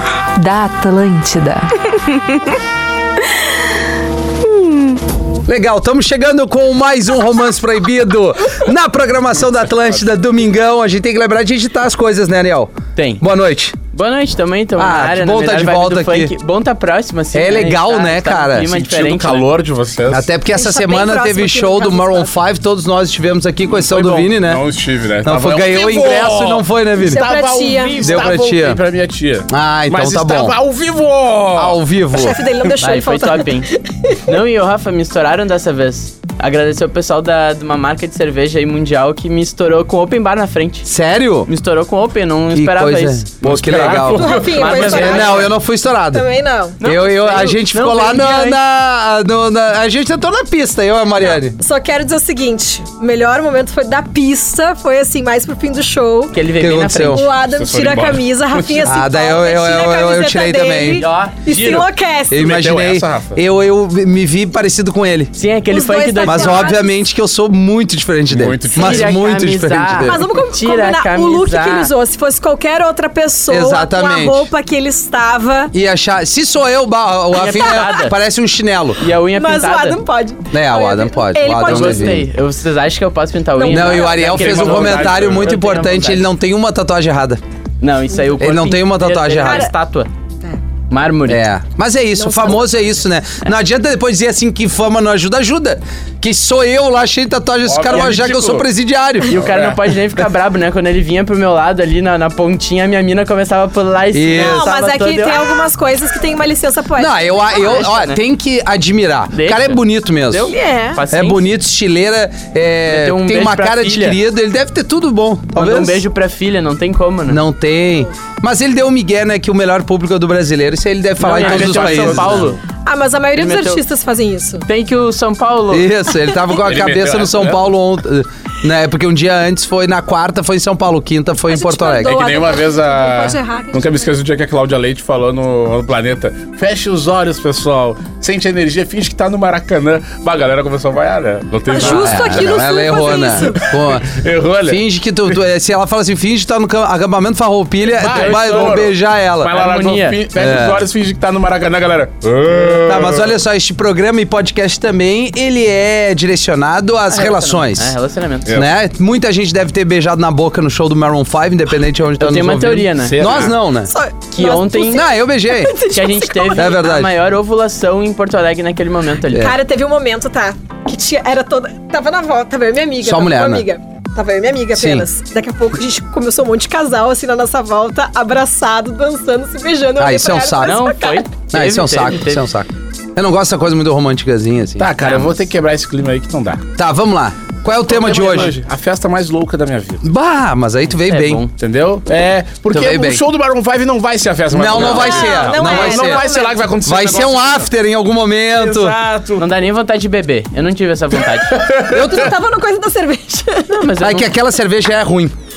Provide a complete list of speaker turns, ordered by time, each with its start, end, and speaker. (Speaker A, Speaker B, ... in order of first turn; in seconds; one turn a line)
Speaker A: 0.3-2.4
Speaker B: 5.5-13.8
Speaker C: 12.9-13.2
Speaker C: 13.9-19.5
Speaker B: 14.8-16.3
Speaker B: 17.3-18.7
Speaker D: 18.7-20.3
Speaker B: 20.1-24.6
Speaker E: 20.5-22.3
Speaker D: 23.9-31.8
Speaker B: 25.2-27.3
Speaker E: 27.0-28.1
Speaker B: 28.0-28.8
Speaker B: 29.5-30.6
Speaker B: 31.6-32.5
Speaker E: 32.1-34.2
Speaker C: 32.8-40.9
Speaker B: 40.9-41.5
Speaker C: 41.5-45.5
Speaker B: 42.5-46.3
Speaker D: 43.4-45.5
Speaker E: 44.2-45.6
Speaker E: 46.1-46.8
Speaker C: 46.8-48.6
Speaker B: 46.8-51.6
Speaker E: 51.5-56.4
Speaker C: 56.3-57.3
Speaker B: 56.6-57.3
Speaker E: 57.0-62.5
Speaker D: 57.4-58.9
Speaker B: 58.8-61.0
Speaker C: 61.0-61.4
Speaker D: 61.5-63.4
Speaker B: 62.3-65.3
Speaker C: 65.3-66.7
Speaker E: 65.7-66.9
Speaker B: 66.2-70.3
Speaker D: 68.3-69.2
Speaker C: 68.8-71.9
Speaker E: 70.0-75.7
Speaker B: 73.5-74.5
Speaker B: 75.7-79.0
Speaker C: 77.3-78.2
Speaker E: 77.5-78.0
Speaker C: 79.0-80.0
Speaker E: 79.3-82.2
Speaker B: 80.5-82.3
Speaker C: 81.6-86.3
Speaker E: 83.6-84.1
Speaker B: 83.7-87.4
Speaker D: 84.1-85.6
Speaker C: 87.8-90.1
Speaker B: 88.4-89.7
Speaker E: 89.4-89.7
Speaker C: 90.9-91.5
Speaker B: 91.3-99.5
Speaker E: 92.2-92.9
Speaker D: 97.7-98.7
Speaker C: 99.3-105.5
Speaker D: 99.3-99.8
Speaker B: 104.1-104.7
Speaker E: 104.3-107.9
Speaker B: 107.0-110.5
Speaker C: 107.6-108.2
Speaker C: 109.3-111.5
Speaker E: 110.5-111.0
Speaker B: 111.1-116.0
Speaker C: 112.9-114.2
Speaker C: 115.5-117.4
Speaker B: 117.3-122.5
Speaker C: 121.2-122.6
Speaker D: 121.3-122.5
Speaker E: 122.8-124.7
Speaker C: 123.4-123.8
Speaker C: 124.7-125.9
Speaker B: 125.7-132.3
Speaker D: 126.6-127.6
Speaker E: 131.5-134.1
Speaker D: 132.0-145.3
Speaker E: 141.7-143.6
Speaker B: 141.8-149.6
Speaker D: 148.0-153.3
Speaker C: 148.0-148.8
Speaker C: 149.5-150.2
Speaker B: 150.4-150.8
Speaker B: 152.6-157.9
Speaker C: 157.1-158.5
Speaker D: 158.5-158.7
Speaker B: 158.5-163.9
Speaker C: 162.2-163.4
Speaker D: 163.0-163.6
Speaker E: 163.8-166.7
Speaker C: 164.3-165.1
Speaker B: 164.9-165.8
Speaker C: 165.9-169.5
Speaker B: 166.6-167.1
Speaker B: 169.3-169.6
Speaker E: 169.3-181.3
Speaker B: 173.0-173.7
Speaker B: 174.7-175.1
Speaker B: 180.0-180.8
Speaker C: 180.6-182.5
Speaker B: 181.5-184.9
Speaker D: 184.8-186.7
Speaker C: 185.0-185.3
Speaker B: 186.8-188.5
Speaker D: 187.7-190.1
Speaker B: 190.0-191.4
Speaker C: 191.1-191.5
Speaker D: 191.6-197.7
Speaker B: 192.7-193.2
Speaker B: 194.5-196.3
Speaker C: 194.7-195.3
Speaker E: 194.8-196.6
Speaker B: 196.8-199.0
Speaker D: 198.5-199.4
Speaker C: 199.4-201.7
Speaker D: 201.5-202.3
Speaker E: 201.9-203.9
Speaker C: 203.7-204.3
Speaker B: 204.0-205.3